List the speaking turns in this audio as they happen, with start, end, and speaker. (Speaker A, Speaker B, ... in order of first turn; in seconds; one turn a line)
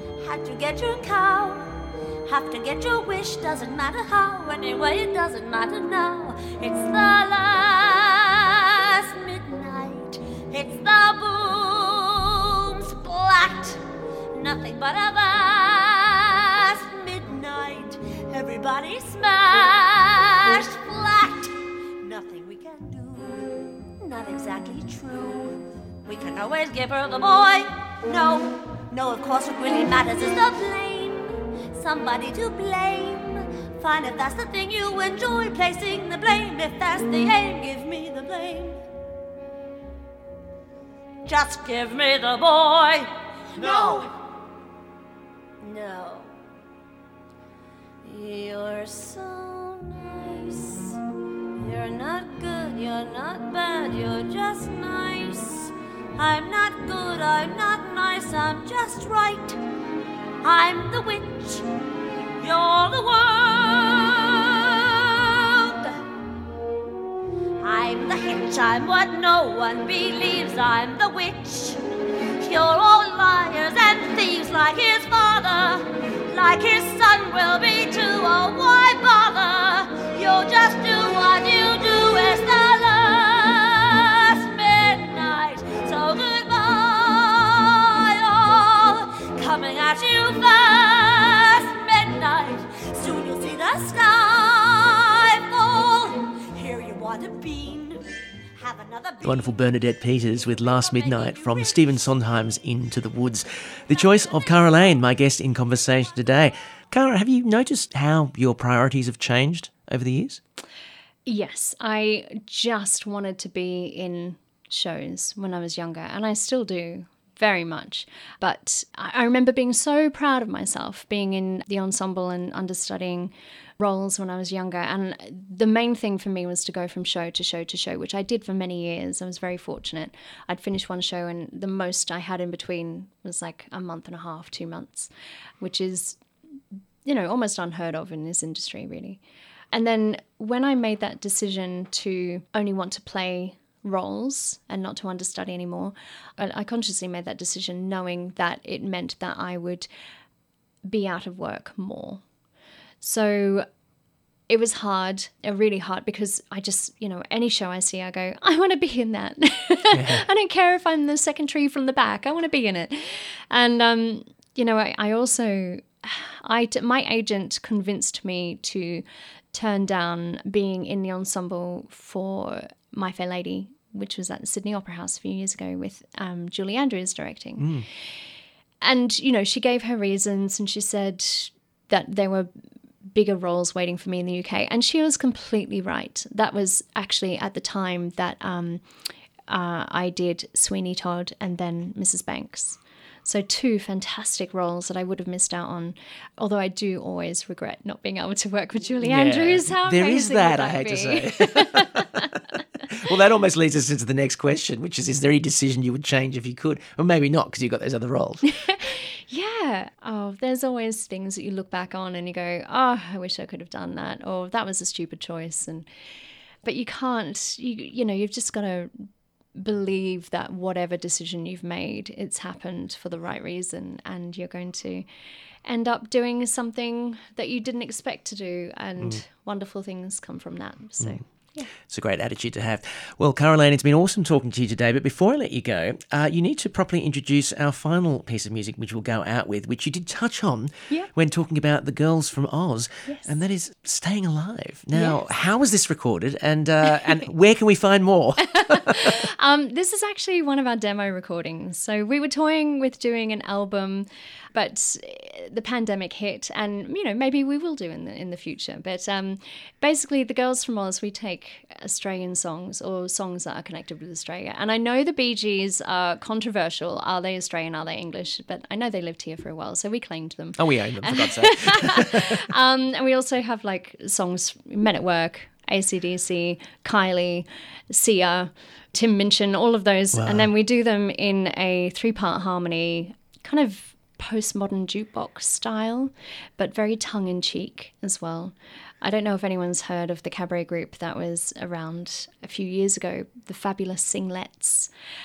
Speaker A: 0.2-38.8
Speaker A: 41.3-44.1
Speaker A: 45.6-46.3
Speaker A: 48.0-51.0
Speaker A: 51.5-59.6
Speaker A: 60.4-61.7
Speaker A: 62.4-66.0
Speaker A: 67.6-71.8
Speaker A: 72.4-98.0
Speaker A: 98.6-99.5
Speaker B: 99.2-110.4
Speaker A: 100.6-102.0
Speaker C: 111.3-136.2
Speaker C: 137.1-139.2
Speaker C: 139.7-149.9
Speaker C: 150.9-152.2
Speaker C: 153.0-153.7
Speaker C: 154.5-177.7
Speaker B: 159.9-160.2
Speaker B: 177.6-177.9
Speaker C: 178.8-182.5
Speaker C: 183.1-188.8
Speaker C: 189.5-202.4
Speaker B: 199.0-202.4
Speaker B: 202.9-208.4
Speaker C: 208.7-215.9
Speaker C: 216.6-225.1
Speaker C: 225.7-231.7
Speaker B: 231.8-249.2
Speaker C: 243.1-243.3
Speaker C: 244.9-245.2
Speaker C: 248.5-294.9
Speaker B: 270.6-272.5
Speaker B: 280.1-280.5